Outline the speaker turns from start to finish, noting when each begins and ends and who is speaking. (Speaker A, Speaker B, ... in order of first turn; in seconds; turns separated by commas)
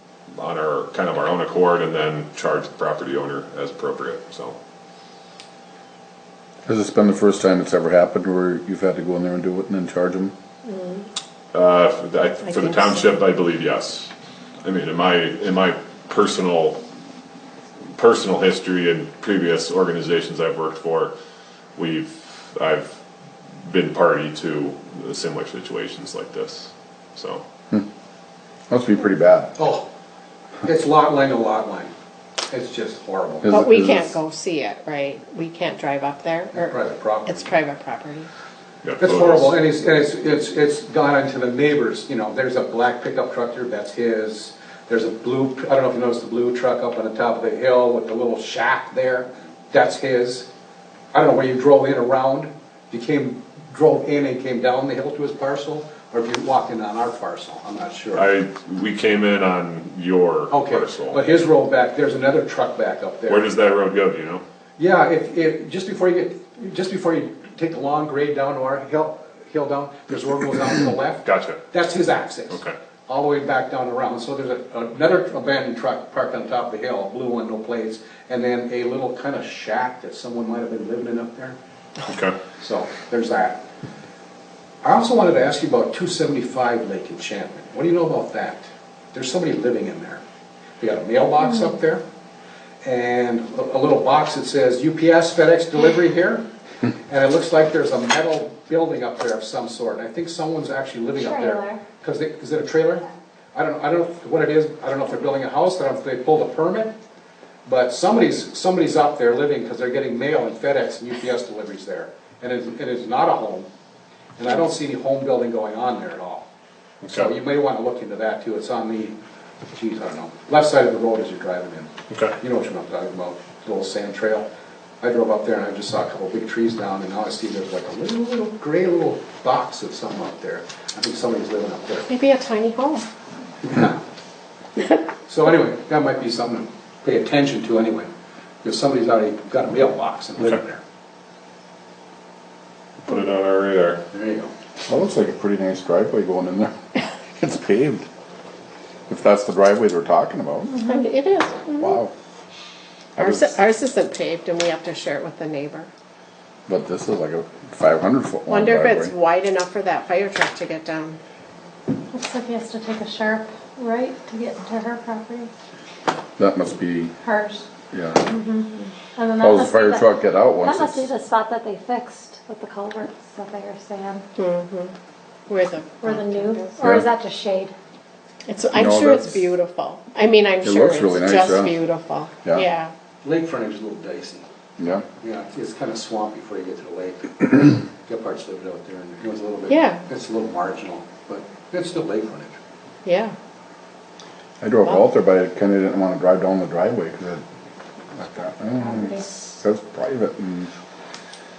Speaker A: 0.3-4.6, Speaker B: 6.7-10.3, Speaker C: 10.7-11.1, Speaker A: 11.5-14.1, Speaker A: 14.6-16.8, Speaker A: 17.9-21.1, Speaker A: 21.8-23.0, Speaker A: 23.6-27.4, Speaker B: 28.7-29.6, Speaker D: 29.6-29.9, Speaker D: 30.6-31.9, Speaker D: 32.5-33.5, Speaker B: 33.4-34.2, Speaker C: 33.5-38.3, Speaker D: 36.5-37.6, Speaker A: 38.8-39.5, Speaker D: 39.0-50.5, Speaker D: 51.1-58.3, Speaker A: 58.1-61.2, Speaker D: 60.5-63.5, Speaker A: 63.3-64.4, Speaker D: 64.8-81.6, Speaker A: 71.2-71.6, Speaker A: 72.5-72.8, Speaker A: 82.1-82.4, Speaker D: 82.6-83.6, Speaker D: 84.8-90.2, Speaker D: 90.8-92.0, Speaker D: 92.8-96.5, Speaker D: 97.1-107.0, Speaker E: 101.1-101.8, Speaker D: 107.7-113.7, Speaker D: 114.4-116.5, Speaker A: 117.0-117.3, Speaker D: 117.1-119.2, Speaker D: 119.7-124.5, Speaker A: 122.1-122.3, Speaker D: 125.0-132.1, Speaker C: 132.1-133.1, Speaker D: 133.6-134.0, Speaker D: 135.2-138.1, Speaker D: 138.6-140.8, Speaker A: 143.0-144.0, Speaker D: 144.1-144.5, Speaker B: 144.8-146.8, Speaker B: 147.3-148.1, Speaker B: 149.1-150.8, Speaker E: 150.8-151.0, Speaker C: 150.8-152.0, Speaker B: 151.8-152.1, Speaker B: 153.2-153.6, Speaker C: 153.2-155.9, Speaker B: 156.7-159.1, Speaker C: 158.5-161.2, Speaker E: 162.1-165.5, Speaker B: 166.4-167.2, Speaker E: 167.2-167.7, Speaker B: 167.9-168.2, Speaker E: 168.2-174.2, Speaker B: 169.4-171.1, Speaker C: 174.4-174.9, Speaker C: 175.5-176.8, Speaker E: 176.0-177.7, Speaker B: 176.8-177.1, Speaker C: 178.5-182.9, Speaker B: 178.7-179.4, Speaker B: 180.6-181.8, Speaker D: 183.2-184.4, Speaker B: 184.8-185.1, Speaker D: 185.2-192.6, Speaker C: 189.7-190.0, Speaker C: 193.1-193.3, Speaker B: 194.6-197.4, Speaker B: 198.2-200.7, Speaker E: 198.8-199.3